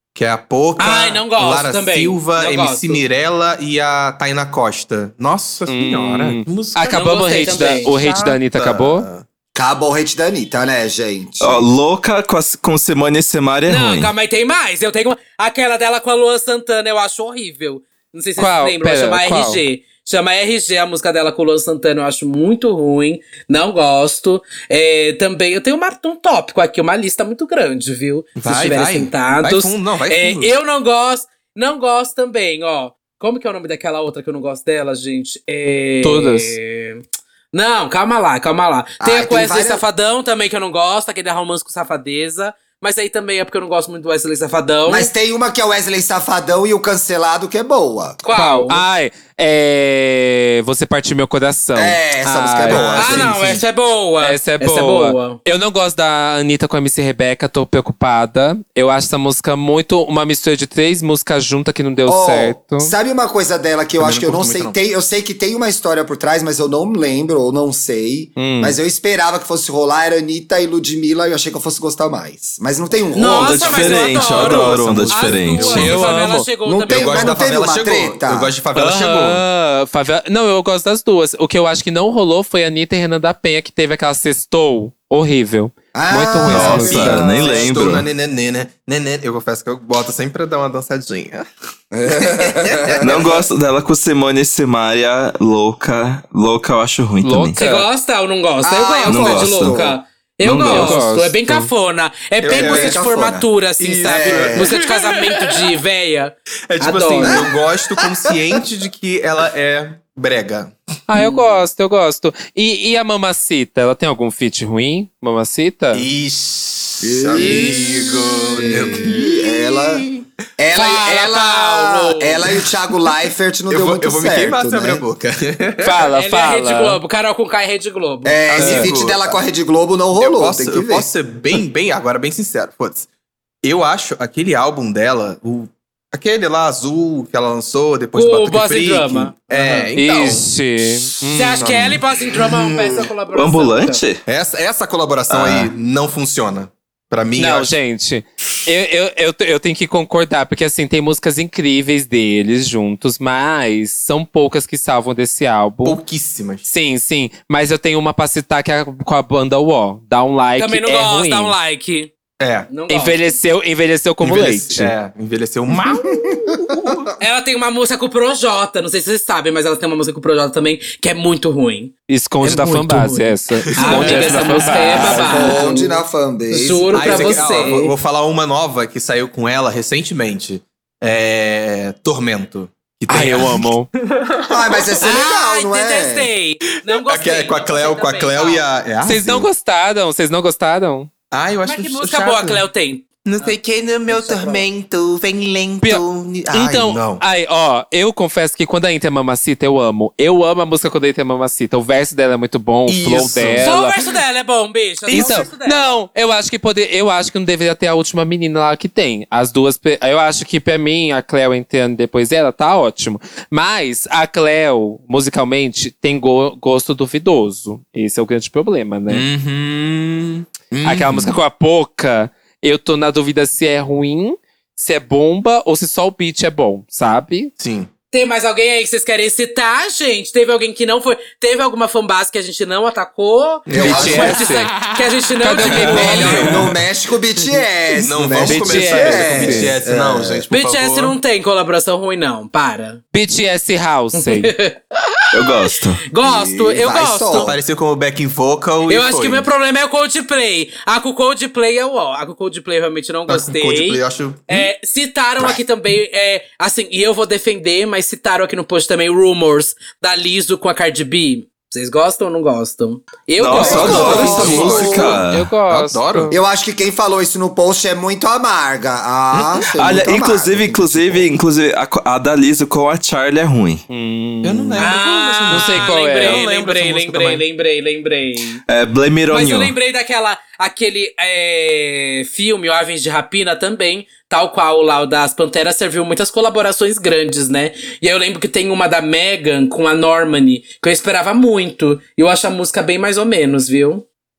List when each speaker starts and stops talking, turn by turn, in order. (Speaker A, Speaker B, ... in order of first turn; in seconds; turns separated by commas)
Speaker A: 0.1-9.2, Speaker B: 0.8-3.0, Speaker C: 5.7-9.1, Speaker B: 6.9-7.9, Speaker D: 9.6-11.7, Speaker E: 11.4-14.1, Speaker B: 13.7-45.1, Speaker C: 18.4-19.6, Speaker A: 28.4-30.6, Speaker C: 36.0-36.6, Speaker D: 39.0-39.8, Speaker D: 44.9-48.2, Speaker B: 48.2-48.8, Speaker C: 48.3-53.6, Speaker D: 51.8-53.6, Speaker B: 52.9-55.4, Speaker C: 54.2-62.9, Speaker D: 62.1-73.8, Speaker A: 64.0-64.8, Speaker C: 68.4-68.8, Speaker B: 73.1-77.5, Speaker E: 73.3-76.0, Speaker A: 73.6-76.3, Speaker C: 75.7-76.5, Speaker D: 76.7-78.5, Speaker A: 76.9-79.4, Speaker C: 78.7-87.2, Speaker D: 85.9-87.9, Speaker E: 86.5-88.1, Speaker A: 86.5-91.5, Speaker D: 91.9-93.3, Speaker A: 92.1-93.4, Speaker E: 93.0-97.6, Speaker C: 97.2-97.9, Speaker B: 97.5-107.4, Speaker D: 98.6-100.0, Speaker E: 99.1-99.9, Speaker E: 100.4-101.0, Speaker C: 100.7-101.7, Speaker A: 102.4-103.0, Speaker D: 102.5-103.5, Speaker A: 103.8-105.7, Speaker D: 104.0-104.7, Speaker A: 106.7-110.8, Speaker D: 107.2-108.0, Speaker C: 111.1-116.1, Speaker B: 111.2-111.6, Speaker A: 115.9-120.3, Speaker D: 117.0-120.1, Speaker B: 117.4-117.9, Speaker B: 118.6-118.9, Speaker D: 120.6-125.0, Speaker B: 120.7-122.5, Speaker A: 123.7-126.1, Speaker C: 125.8-127.0, Speaker B: 126.1-128.9, Speaker D: 128.2-131.1, Speaker A: 128.5-129.4, Speaker A: 130.2-133.1, Speaker A: 133.6-142.6, Speaker B: 138.1-139.9, Speaker C: 139.9-142.0, Speaker B: 141.3-144.0, Speaker E: 143.3-144.2, Speaker A: 144.3-147.7, Speaker E: 145.3-145.7, Speaker C: 147.4-156.0, Speaker A: 155.8-156.7, Speaker C: 156.7-161.6, Speaker B: 160.6-162.1, Speaker A: 162.4-162.7, Speaker B: 162.7-163.3, Speaker C: 162.9-164.9, Speaker A: 164.2-167.1, Speaker D: 166.3-167.0, Speaker B: 167.2-177.9, Speaker C: 172.1-175.6, Speaker A: 173.8-175.2, Speaker D: 175.0-177.8, Speaker A: 176.9-185.2, Speaker C: 183.1-183.9, Speaker D: 184.5-186.3, Speaker B: 185.0-188.7, Speaker A: 187.1-189.5, Speaker C: 189.0-191.1, Speaker A: 191.3-192.7, Speaker B: 191.7-193.6, Speaker A: 193.2-197.2, Speaker B: 194.1-194.7, Speaker C: 195.8-204.0, Speaker A: 202.9-203.8, Speaker B: 203.6-206.0, Speaker C: 205.1-219.3, Speaker A: 205.1-205.5, Speaker A: 219.1-221.4, Speaker C: 220.8-227.5, Speaker A: 227.6-227.9, Speaker B: 228.1-236.7, Speaker A: 233.7-234.9, Speaker D: 233.7-234.4, Speaker C: 233.7-234.7, Speaker C: 235.4-236.6, Speaker A: 235.6-236.7, Speaker D: 235.9-240.5, Speaker A: 237.9-241.2, Speaker C: 238.4-239.8, Speaker B: 240.5-243.0, Speaker C: 243.1-244.6, Speaker B: 244.1-245.5, Speaker E: 245.3-246.0, Speaker B: 246.1-247.6, Speaker D: 246.2-247.6, Speaker A: 247.4-249.5, Speaker B: 248.9-264.8, Speaker A: 253.3-254.7, Speaker E: 263.4-265.5, Speaker A: 263.5-266.4, Speaker D: 263.6-265.2, Speaker C: 263.9-266.4, Speaker D: 266.3-271.3, Speaker E: 269.8-273.9, Speaker C: 273.9-274.9, Speaker A: 274.4-277.4, Speaker B: 274.8-278.6, Speaker C: 275.5-276.4, Speaker E: 278.7-279.8, Speaker B: 279.3-294.1